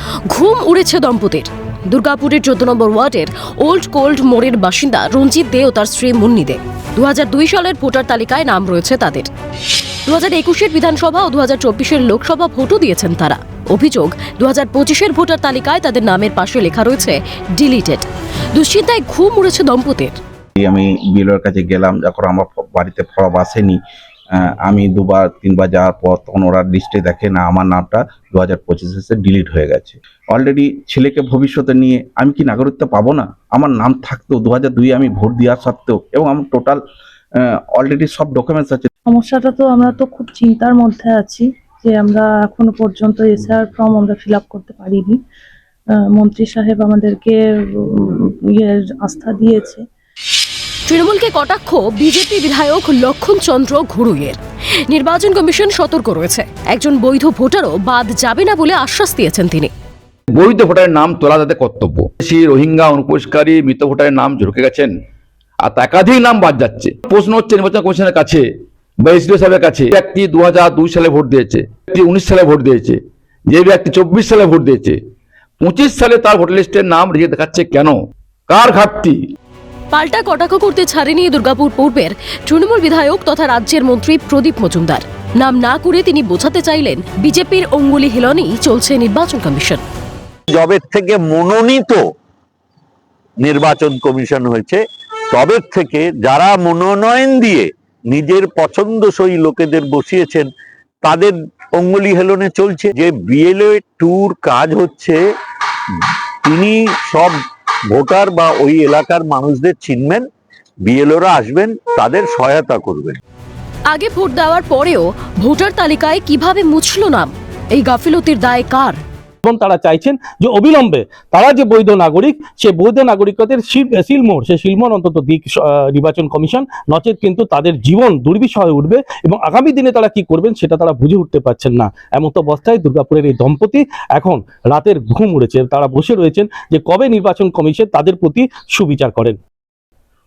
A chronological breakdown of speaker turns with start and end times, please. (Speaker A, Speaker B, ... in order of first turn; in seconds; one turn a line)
Speaker A: 0.3-9.3
Speaker A: 10.1-20.2
Speaker B: 20.6-23.8
Speaker B: 24.4-36.8
Speaker B: 37.4-38.9
Speaker C: 39.1-45.2
Speaker C: 45.9-49.8
Speaker A: 50.9-59.7
Speaker D: 60.3-64.9
Speaker D: 65.6-68.5
Speaker D: 69.0-75.0
Speaker D: 75.6-79.2
Speaker A: 79.9-89.8
Speaker E: 90.5-92.0
Speaker E: 93.4-100.5
Speaker E: 101.0-105.2
Speaker E: 106.4-107.4
Speaker E: 107.9-110.3
Speaker E: 110.8-113.2
Speaker A: 113.9-119.0
Speaker F: 119.5-125.4
Speaker F: 126.0-139.4